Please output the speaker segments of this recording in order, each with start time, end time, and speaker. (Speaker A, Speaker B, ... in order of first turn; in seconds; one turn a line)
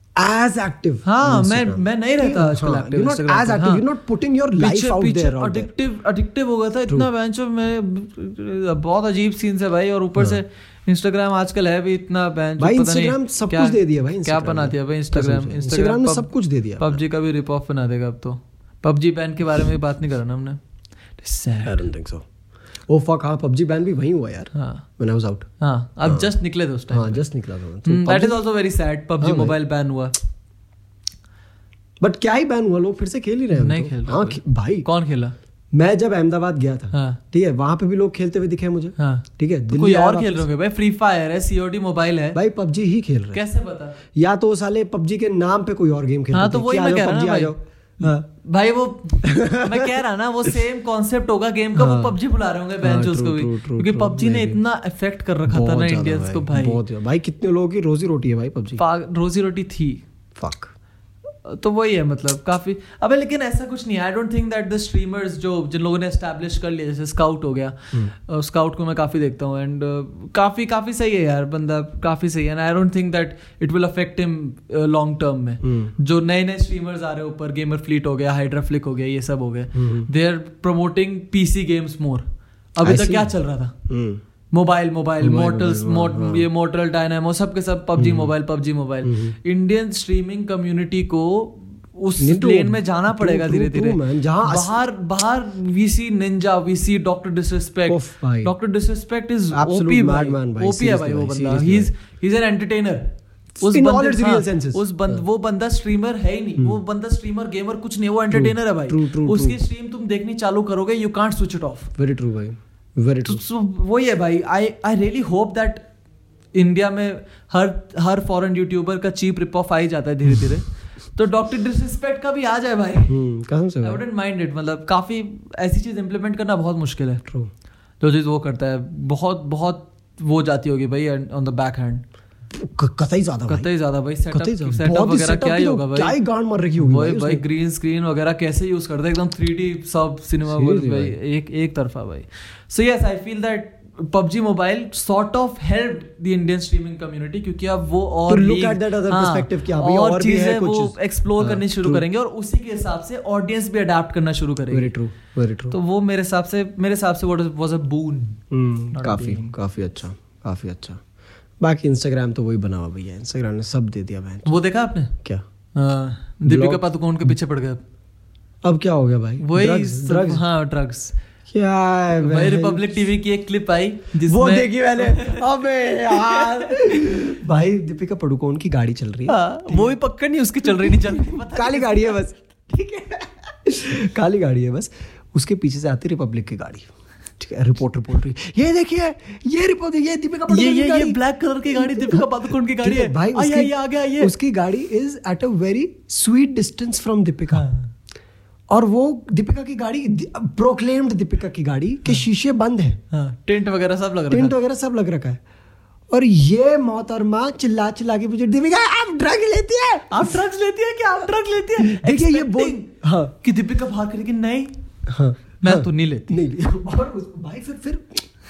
Speaker A: 0.1-5.7
Speaker B: 1.0-3.8
Speaker B: 4.6-20.6
Speaker A: 12.6-17.0
Speaker B: 21.2-21.9
Speaker A: 21.6-22.3
Speaker A: 22.9-25.5
Speaker B: 24.5-24.9
Speaker B: 25.6-27.2
Speaker A: 26.0-26.3
Speaker A: 26.9-28.4
Speaker B: 27.8-30.2
Speaker A: 29.2-29.5
Speaker A: 32.0-34.9
Speaker B: 33.5-35.3
Speaker A: 35.7-40.5
Speaker B: 36.9-37.2
Speaker B: 39.0-42.4
Speaker A: 42.3-43.4
Speaker B: 43.3-44.0
Speaker A: 44.1-48.2
Speaker B: 46.3-56.8
Speaker A: 49.2-49.9
Speaker A: 51.7-52.2
Speaker A: 52.8-54.6
Speaker A: 55.5-58.8
Speaker B: 58.8-60.0
Speaker A: 60.4-60.7
Speaker B: 61.4-83.7
Speaker A: 75.6-75.9
Speaker A: 79.7-80.1
Speaker A: 82.8-83.3
Speaker A: 83.9-84.2
Speaker B: 84.5-111.9
Speaker A: 85.2-86.5
Speaker A: 88.0-88.3
Speaker A: 89.0-89.3
Speaker A: 92.2-94.8
Speaker A: 97.9-98.5
Speaker A: 99.5-101.9
Speaker A: 103.6-105.2
Speaker A: 108.3-109.6
Speaker A: 112.0-113.4
Speaker B: 113.2-115.8
Speaker B: 116.5-123.2
Speaker A: 123.1-124.0
Speaker B: 123.8-127.2
Speaker B: 128.0-132.0
Speaker A: 132.5-133.7
Speaker B: 133.5-136.2
Speaker A: 134.3-137.4
Speaker B: 136.8-154.9
Speaker A: 140.5-141.2
Speaker A: 148.3-152.0
Speaker A: 154.7-155.8
Speaker B: 155.7-158.4
Speaker A: 158.5-161.0
Speaker B: 158.9-159.6
Speaker A: 161.6-164.6
Speaker B: 164.4-165.1
Speaker B: 165.7-167.8
Speaker A: 166.4-166.8
Speaker A: 168.6-170.4
Speaker B: 169.4-171.1
Speaker A: 171.5-172.9
Speaker B: 172.2-175.4
Speaker A: 174.2-179.9
Speaker B: 176.1-176.8
Speaker B: 179.3-182.2
Speaker A: 180.8-191.2
Speaker B: 190.5-194.3
Speaker A: 191.7-197.7
Speaker B: 197.5-197.9
Speaker A: 198.7-203.0
Speaker B: 203.1-204.5
Speaker A: 204.3-205.4
Speaker A: 206.1-210.4
Speaker B: 210.1-212.9
Speaker A: 211.8-213.3
Speaker B: 213.4-214.7
Speaker A: 215.1-218.2
Speaker B: 215.6-216.4